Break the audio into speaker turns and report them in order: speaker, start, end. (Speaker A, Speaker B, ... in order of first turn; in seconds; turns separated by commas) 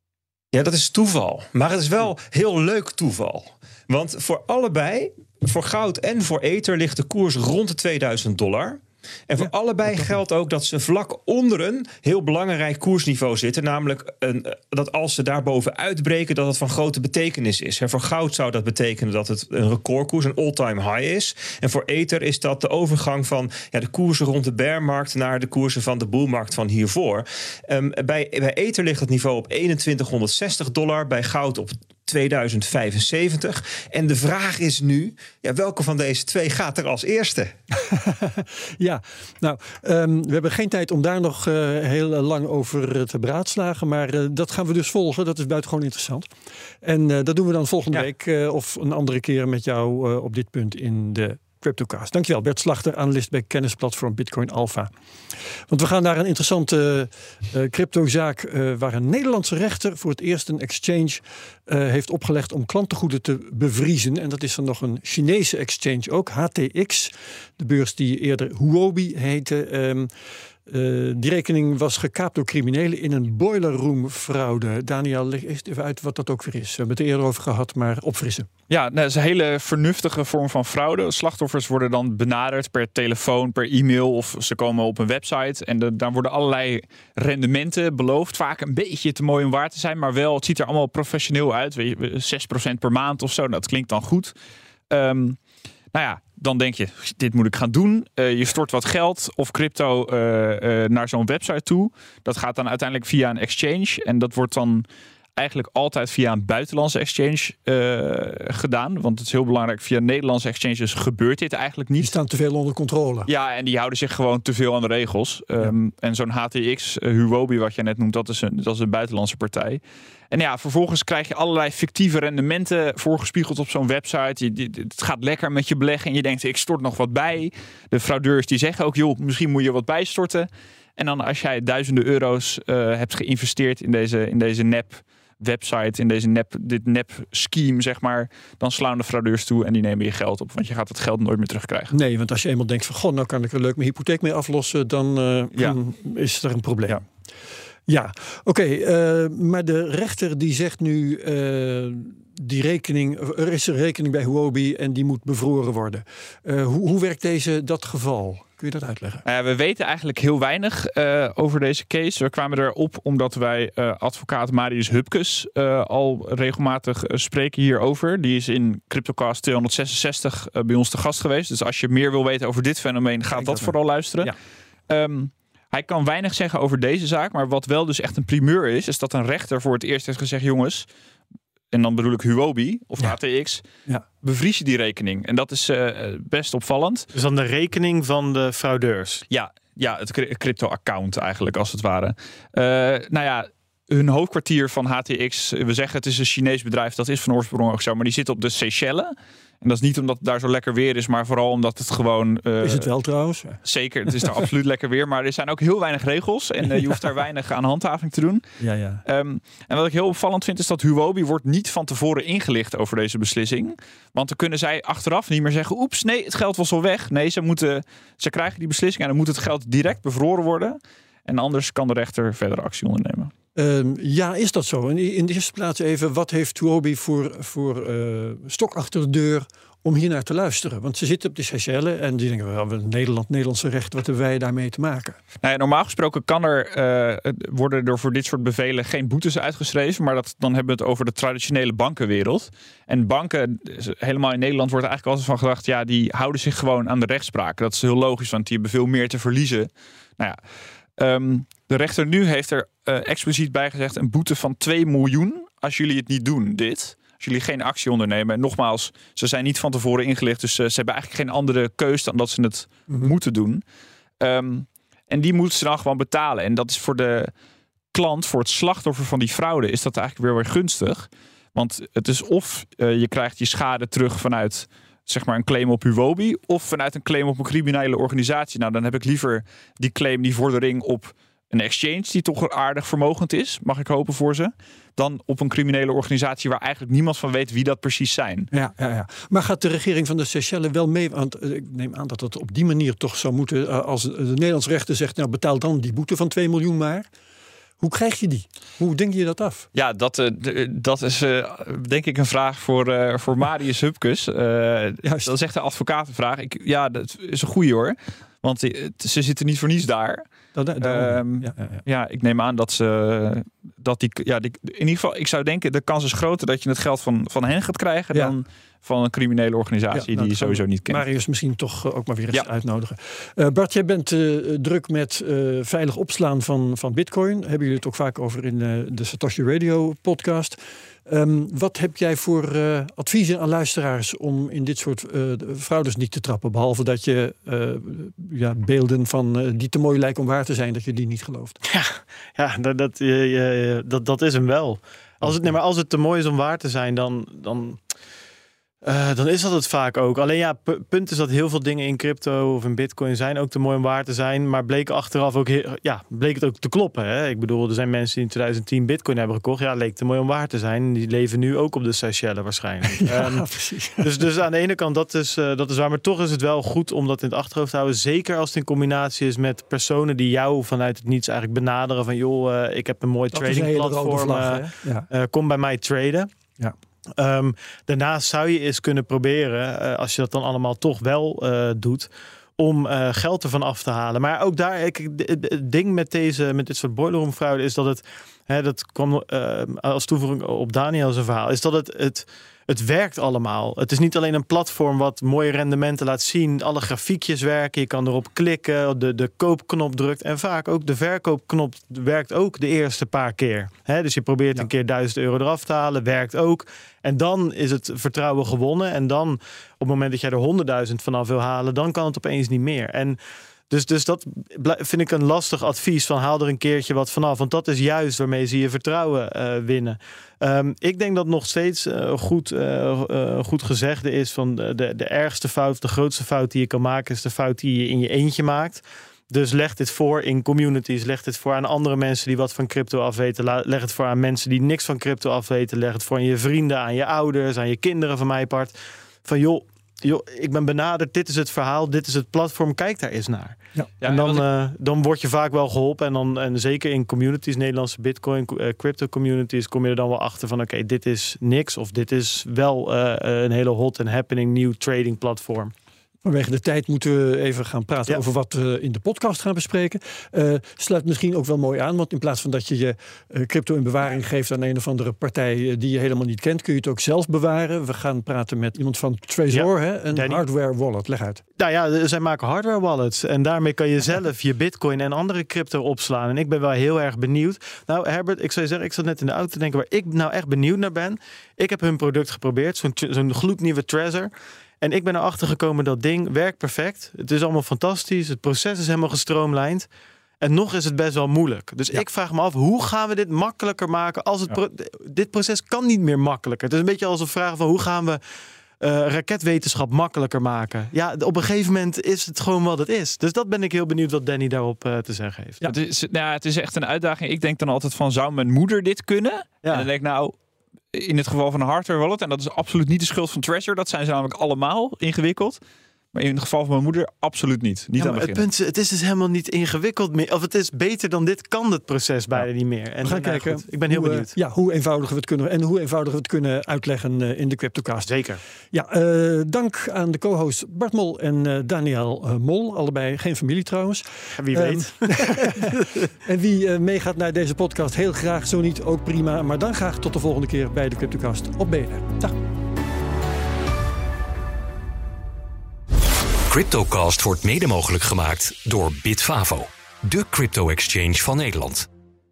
Speaker A: 0.5-37.5, Speaker B: 9.4-10.2, Speaker B: 37.7-46.3, Speaker B: 46.8-54.9, Speaker B: 55.7-70.1, Speaker B: 70.7-78.5, Speaker C: 78.7-94.3, Speaker C: 94.9-95.4, Speaker C: 95.9-104.8, Speaker C: 105.3-112.1, Speaker B: 112.0-113.3, Speaker C: 113.3-141.9, Speaker B: 141.9-147.0, Speaker B: 147.9-159.2, Speaker C: 159.2-174.3, Speaker B: 173.3-174.3, Speaker C: 174.9-180.8, Speaker C: 181.7-183.6, Speaker C: 184.2-187.1, Speaker D: 187.1-189.2, Speaker C: 189.3-202.9, Speaker B: 202.6-203.6, Speaker C: 203.6-208.4, Speaker B: 206.7-206.9, Speaker B: 208.6-209.0, Speaker C: 209.0-223.3, Speaker B: 223.5-235.2, Speaker C: 235.4-250.4, Speaker C: 251.0-263.6, Speaker C: 264.2-267.3, Speaker C: 267.9-288.5, Speaker B: 288.5-297.1, Speaker B: 297.8-299.7, Speaker C: 299.7-310.2, Speaker B: 305.0-305.3, Speaker B: 310.5-311.8, Speaker C: 310.8-321.0, Speaker B: 319.9-341.6, Speaker D: 341.6-347.8, Speaker D: 348.8-363.5, Speaker B: 362.9-364.2, Speaker D: 364.0-376.3, Speaker B: 373.3-375.1, Speaker D: 377.1-413.2, Speaker D: 413.7-455.7, Speaker C: 444.0-444.4, Speaker B: 456.2-471.4, Speaker D: 469.5-470.4, Speaker D: 471.6-489.9, Speaker D: 490.4-498.2, Speaker D: 498.8-505.6, Speaker C: 505.6-510.3, Speaker C: 510.9-515.6, Speaker C: 516.1-518.5, Speaker D: 518.0-524.3, Speaker B: 523.0-528.1, Speaker D: 528.0-528.4, Speaker B: 528.7-542.4, Speaker D: 534.4-536.0, Speaker E: 546.5-551.9